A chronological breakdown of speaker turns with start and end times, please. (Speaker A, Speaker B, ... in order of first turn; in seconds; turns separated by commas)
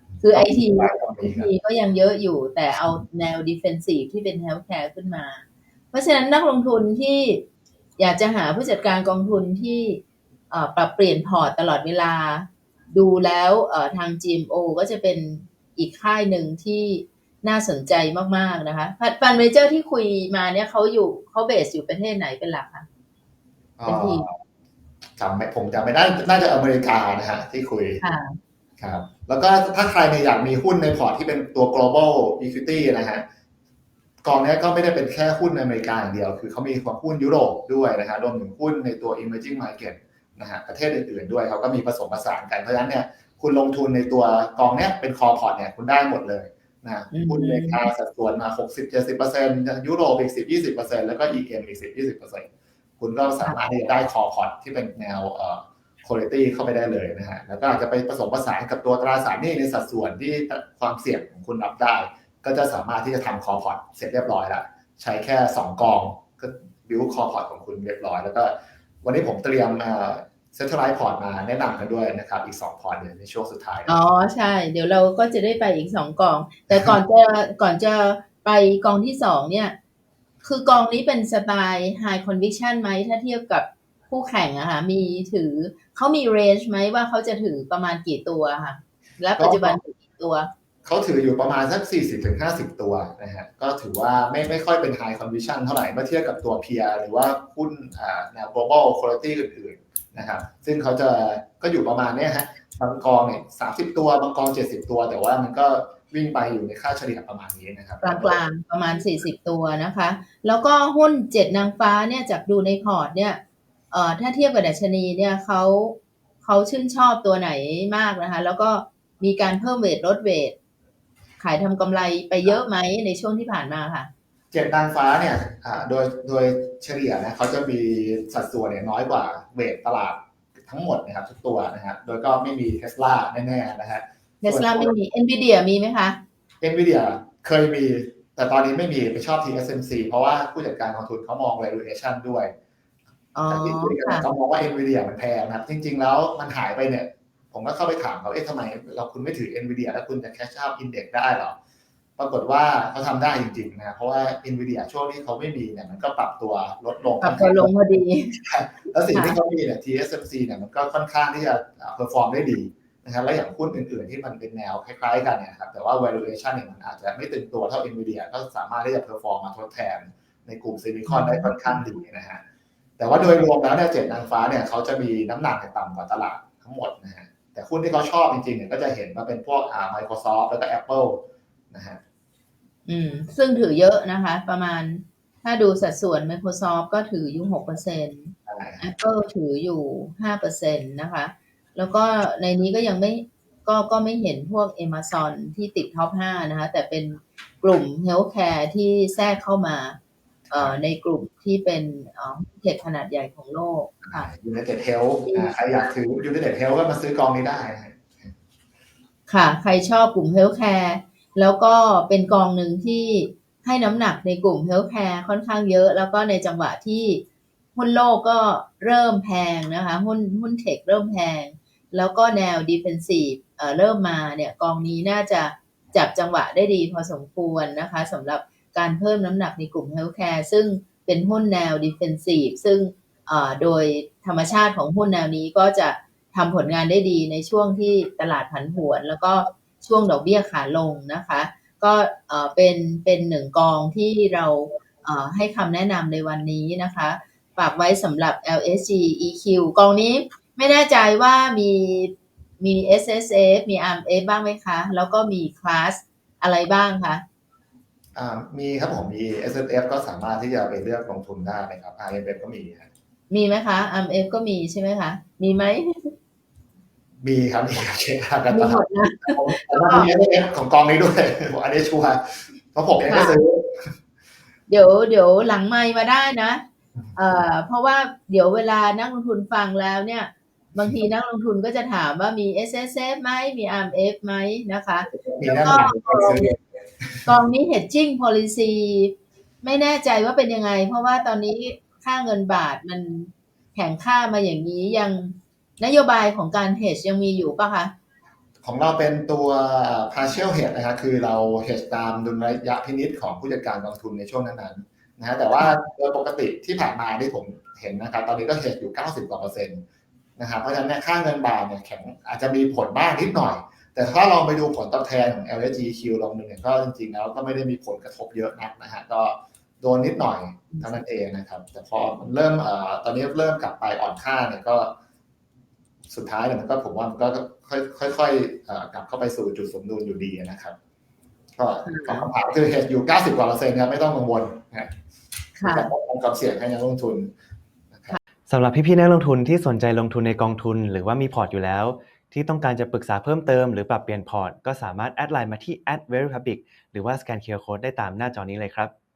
Speaker A: 0.2-7.4, Speaker B: 0.3-1.5, Speaker A: 8.0-22.9, Speaker B: 23.8-24.4, Speaker A: 23.9-24.3, Speaker B: 25.2-28.0, Speaker A: 28.0-28.4, Speaker B: 28.8-33.2, Speaker B: 34.2-52.5, Speaker A: 47.1-47.9, Speaker B: 53.0-73.9, Speaker A: 73.9-79.8, Speaker A: 80.4-90.5, Speaker B: 89.4-89.8, Speaker B: 90.8-108.4, Speaker A: 108.0-113.4, Speaker A: 113.9-120.5, Speaker A: 121.4-124.1, Speaker B: 124.5-134.9, Speaker A: 134.4-136.2, Speaker B: 136.6-142.5, Speaker A: 143.3-144.2, Speaker B: 143.5-151.6, Speaker B: 152.2-172.4, Speaker A: 157.2-158.3, Speaker A: 171.1-171.8, Speaker B: 173.0-182.0, Speaker A: 182.9-200.0, Speaker B: 188.5-188.9, Speaker B: 200.5-200.8, Speaker A: 200.5-204.3, Speaker B: 204.0-208.3, Speaker A: 205.3-205.9, Speaker A: 209.3-217.2, Speaker A: 217.7-257.2, Speaker B: 258.1-262.9, Speaker A: 263.3-266.1, Speaker B: 267.2-273.9, Speaker A: 268.5-270.1, Speaker A: 273.1-273.4, Speaker A: 274.7-276.6, Speaker A: 277.1-286.5, Speaker B: 285.1-287.3, Speaker A: 287.2-297.9, Speaker B: 298.6-309.8, Speaker B: 310.4-324.9, Speaker A: 320.7-321.0, Speaker B: 326.1-330.7, Speaker B: 331.6-334.9, Speaker A: 331.8-332.3, Speaker A: 335.6-335.9, Speaker B: 335.6-337.3, Speaker C: 338.5-348.9